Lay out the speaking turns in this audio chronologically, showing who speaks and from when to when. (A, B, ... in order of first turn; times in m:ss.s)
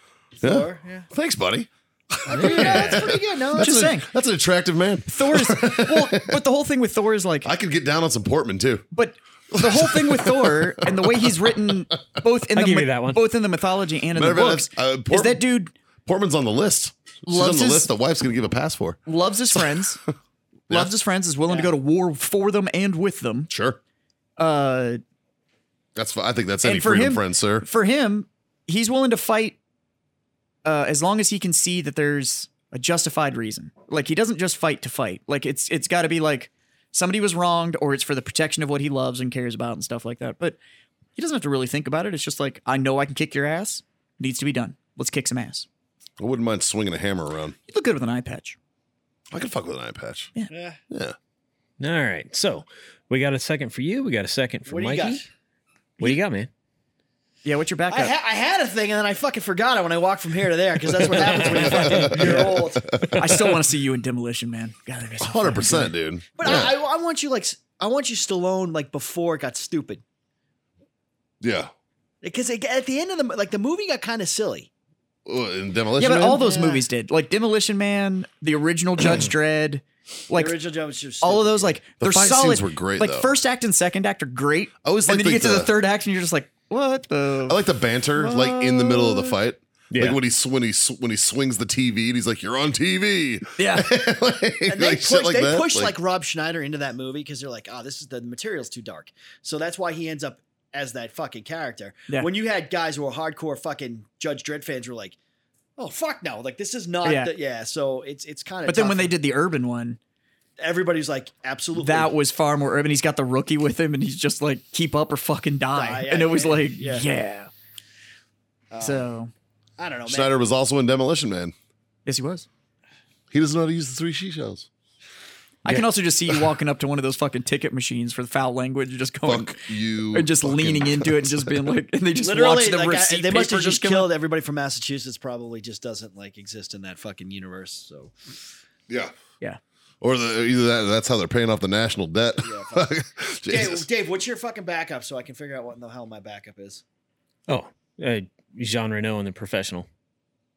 0:00.4-0:01.1 A
0:00.4-0:06.4 B
0:02.3-0:03.8 A
0:02.4-0:03.0 C
0:03.6-0:04.1 D
0:05.1-0:07.5 D
0:07.4-0:08.9 B
0:08.9-0:15.7 D
0:09.5-0:11.5 B
0:12.5-0:13.2 C
0:14.1-0:15.4 B
0:16.0-0:19.0 B
0:17.3-0:17.9 D
0:19.0-0:20.0 D
0:19.5-0:19.8 B
0:20.7-0:20.9 B
0:20.7-0:23.5 D
0:21.5-0:21.7 A
0:23.5-0:23.8 B
0:24.4-0:25.0 D
0:25.9-0:27.6 B
0:26.6-0:29.6 D
0:30.6-0:40.6 D
0:41.2-0:45.7 D
0:46.2-0:47.6 B
0:47.7-0:48.6 D
0:49.3-0:50.3 B
0:50.5-0:50.8 A
0:50.9-0:51.2 B
0:51.8-0:55.2 C
0:54.6-0:55.3 A
0:56.0-0:56.5 C
0:57.4-0:58.1 D
0:57.9-1:03.1 A
1:01.2-1:01.8 C
1:01.4-1:03.4 B
1:01.7-1:02.6 D
1:03.1-1:05.9 D
1:05.2-1:06.7 B
1:06.4-1:10.0 A
1:11.4-1:11.7 B
1:12.2-1:14.7 A
1:15.2-1:16.4 B
1:16.0-1:20.6 D
1:16.3-1:16.8 A
1:20.3-1:21.8 A
1:21.2-1:27.6 D
1:22.0-1:23.3 B
1:24.8-1:25.7 B
1:27.5-1:35.9 B
1:28.1-1:29.4 D
1:29.9-1:30.2 C
1:33.6-1:33.9 D
1:34.7-1:45.2 A
1:45.8-1:49.1 A
1:47.0-1:47.3 D
1:48.6-1:50.0 D
1:50.6-1:52.1 A
1:51.8-1:57.5 D
1:55.7-1:57.1 A
1:58.7-1:59.1 A
1:58.8-1:59.3 D
1:59.8-2:00.4 A
2:00.0-2:01.5 B
2:02.0-2:02.5 D
2:03.3-2:04.7 B
2:05.6-2:14.1 D
2:09.2-2:11.7 B
2:12.2-2:18.1 A
2:20.0-2:23.8 B
2:22.4-2:22.9 A
2:23.5-2:26.8 A
2:27.5-2:29.9 C